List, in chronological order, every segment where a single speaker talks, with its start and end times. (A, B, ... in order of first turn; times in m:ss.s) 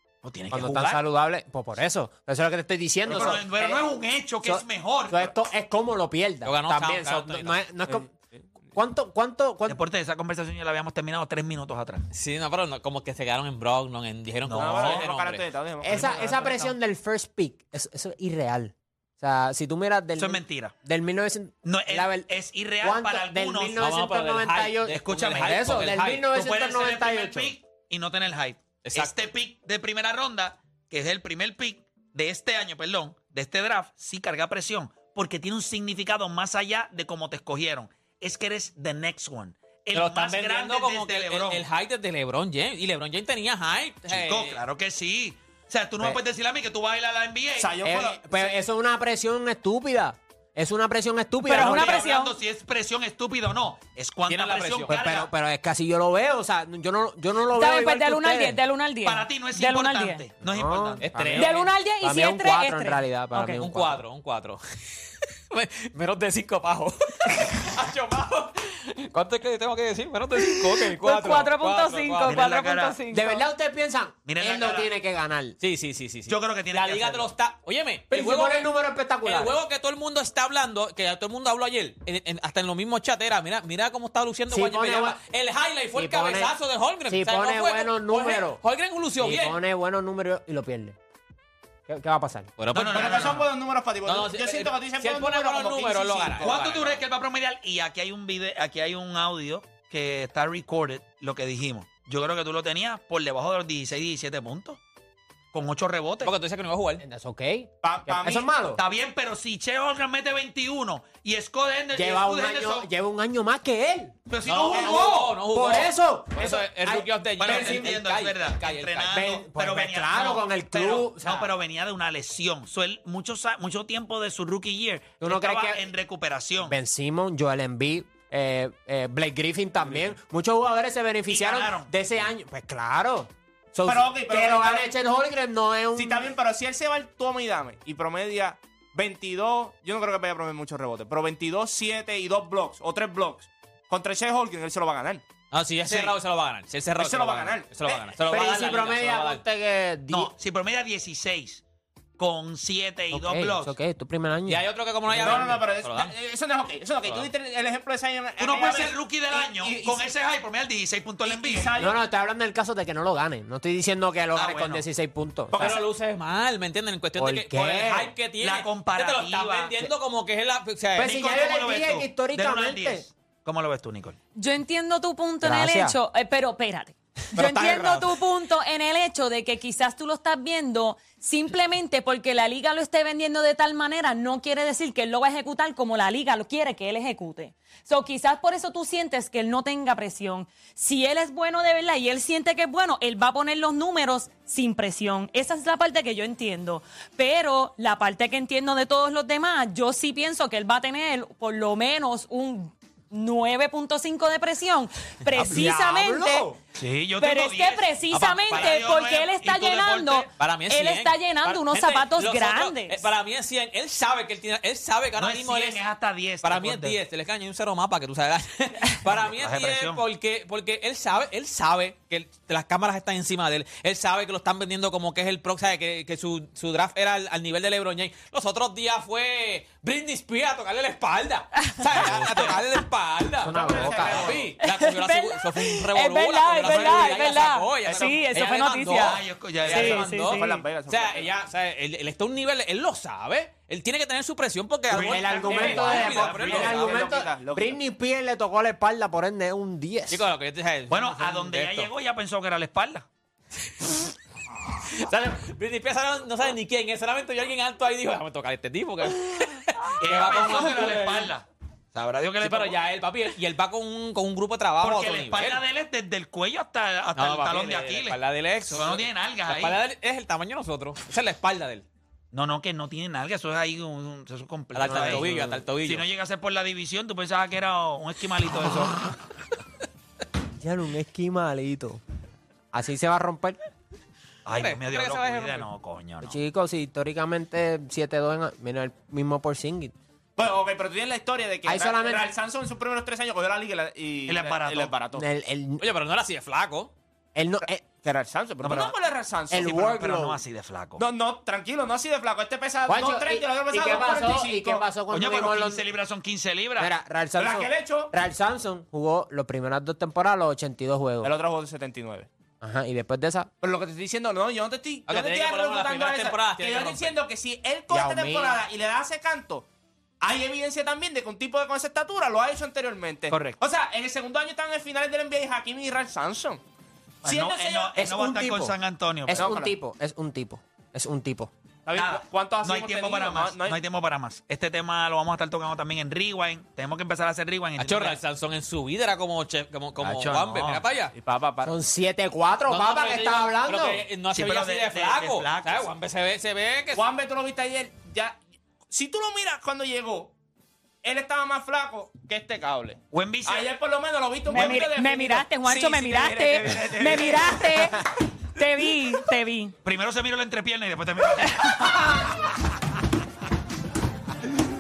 0:00.2-0:01.0 A
0:00.5-0:03.8 B
0:03.1-0:05.2 A
0:03.1-0:03.4 C
0:04.4-0:08.1 B
0:06.4-0:07.6 D
0:07.9-0:08.8 C
0:08.7-0:09.8 B
0:09.7-0:12.0 A
0:12.1-0:15.5 D
0:14.4-0:15.1 A
0:14.5-0:16.8 C
0:15.8-0:27.6 B
0:20.2-0:20.7 A
0:21.6-0:23.8 A
0:23.7-0:26.4 D
0:24.9-0:41.7 A
0:28.8-0:29.2 D
0:39.9-0:44.6 D
0:44.1-0:47.7 A
0:47.6-0:48.6 C
0:47.8-0:52.1 B
0:51.4-0:52.4 E
0:51.5-0:55.3 A
0:54.3-0:55.0 D
0:54.9-0:58.6 B
0:57.5-1:00.2 E
0:59.0-1:01.2 A
1:00.4-1:04.0 B
1:01.0-1:01.7 D
1:01.4-1:03.7 E
1:03.6-1:12.4 D
1:10.4-1:13.4 E
1:12.2-1:13.0 A
1:13.1-1:15.6 B
1:14.3-1:14.9 A
1:15.6-1:29.6 D
1:16.3-1:17.3 A
1:18.1-1:19.6 B
1:24.5-1:25.2 B
1:25.9-1:26.6 B
1:27.1-1:28.6 B
1:29.2-1:31.0 B
1:31.9-1:32.5 B
1:32.6-1:33.5 D
1:32.7-1:33.4 A
1:32.7-1:36.6 C
1:34.0-1:37.0 D
1:36.4-1:44.8 A
1:45.5-1:46.3 A
1:46.2-1:47.0 D
1:47.0-1:48.8 B
1:47.8-1:48.5 C
1:48.7-1:52.9 A
1:51.9-1:54.1 B
1:54.3-1:55.3 A
1:54.4-1:59.2 D
1:54.7-1:58.0 B
1:57.4-2:06.8 A
1:59.1-2:01.5 B
2:05.2-2:05.9 B
2:06.6-2:16.3 B
2:09.8-2:10.2 C
2:11.3-2:11.9 A
2:13.8-2:14.9 C
2:16.0-2:25.2 C
2:25.5-2:29.4 D
2:25.8-2:26.2 C
2:27.0-2:28.1 C
2:28.3-2:30.3 B
2:30.1-2:31.6 A
2:32.2-2:33.8 A
2:33.1-2:34.6 B
2:34.5-2:36.1 D
2:35.1-2:40.1 C
2:37.0-2:37.3 D
2:38.4-2:41.7 A
2:41.2-2:42.0 C
2:41.8-2:45.7 B
2:44.3-2:44.8 A
2:45.5-2:45.8 C
2:45.5-2:51.1 D
2:47.2-2:48.2 B
2:48.4-2:49.8 A
2:51.0-2:53.1 B
2:51.0-2:54.2 A
2:54.4-3:26.5 E
2:55.4-2:56.0 B
2:57.4-2:58.2 D
3:25.4-3:26.6 B
3:26.8-3:30.2 A
3:27.2-3:33.1 E
3:28.1-3:28.7 D
3:30.2-3:35.8 D
3:35.2-3:37.0 A
3:36.4-4:07.1 D
3:39.0-3:40.0 A
3:51.6-3:51.8 E
3:52.0-3:52.6 A
3:53.4-3:54.4 B
3:53.6-3:54.4 A
3:53.7-3:54.3 C
3:54.5-4:00.7 E
3:56.6-3:57.2 A
3:57.8-3:58.2 C
3:59.0-3:59.9 A
3:59.7-4:01.4 C
4:04.9-4:06.8 A
4:05.0-4:10.2 B
4:05.3-4:07.8 C
4:10.1-4:11.9 D
4:10.9-4:13.1 A
4:13.6-4:14.1 D
4:14.9-4:21.4 D
4:20.0-4:22.8 A
4:22.4-4:25.6 D
4:24.8-4:28.2 A
4:27.2-4:31.9 D
4:28.7-4:29.8 A
4:32.3-4:35.3 A
4:34.7-4:36.1 D
4:34.8-4:35.6 B
4:35.8-4:39.0 A
4:40.6-4:42.0 B
4:42.7-4:43.6 B
4:44.5-4:46.4 A
4:44.5-4:45.7 D
4:46.2-4:50.0 B
4:50.4-4:55.2 C
4:51.6-4:52.3 B
4:54.3-4:55.0 A
4:55.1-4:55.8 B
4:55.8-4:56.9 D
4:57.4-4:57.8 B
4:58.0-4:59.7 C
4:58.6-4:59.0 A
4:59.5-5:00.4 B
4:59.6-5:01.0 A
5:01.0-5:04.9 C
5:02.9-5:05.8 B
5:05.1-5:06.9 A
5:06.8-5:11.3 B
5:07.4-5:08.1 C
5:11.2-5:12.3 C
5:12.6-5:13.5 B
5:13.6-5:19.7 C
5:15.1-5:17.2 D
5:17.9-5:18.6 B
5:20.2-5:26.6 C
5:23.3-5:23.6 A
5:27.2-5:29.5 A
5:27.2-5:28.0 C
5:28.0-5:28.8 B
5:29.3-5:31.5 B
5:29.3-5:29.8 C
5:31.9-5:33.8 C
5:32.0-5:38.2 A
5:37.8-5:41.1 D
5:40.0-5:40.9 A
5:41.1-5:41.7 C
5:41.6-5:44.0 B
5:42.7-5:47.1 D
5:44.3-5:45.9 A
5:46.9-5:48.4 C
5:48.9-5:50.3 C
5:51.0-5:57.9 C
5:53.1-5:53.7 A
5:54.5-5:58.0 E
5:58.6-5:59.8 E
5:59.8-6:02.0 A
6:01.4-6:02.0 E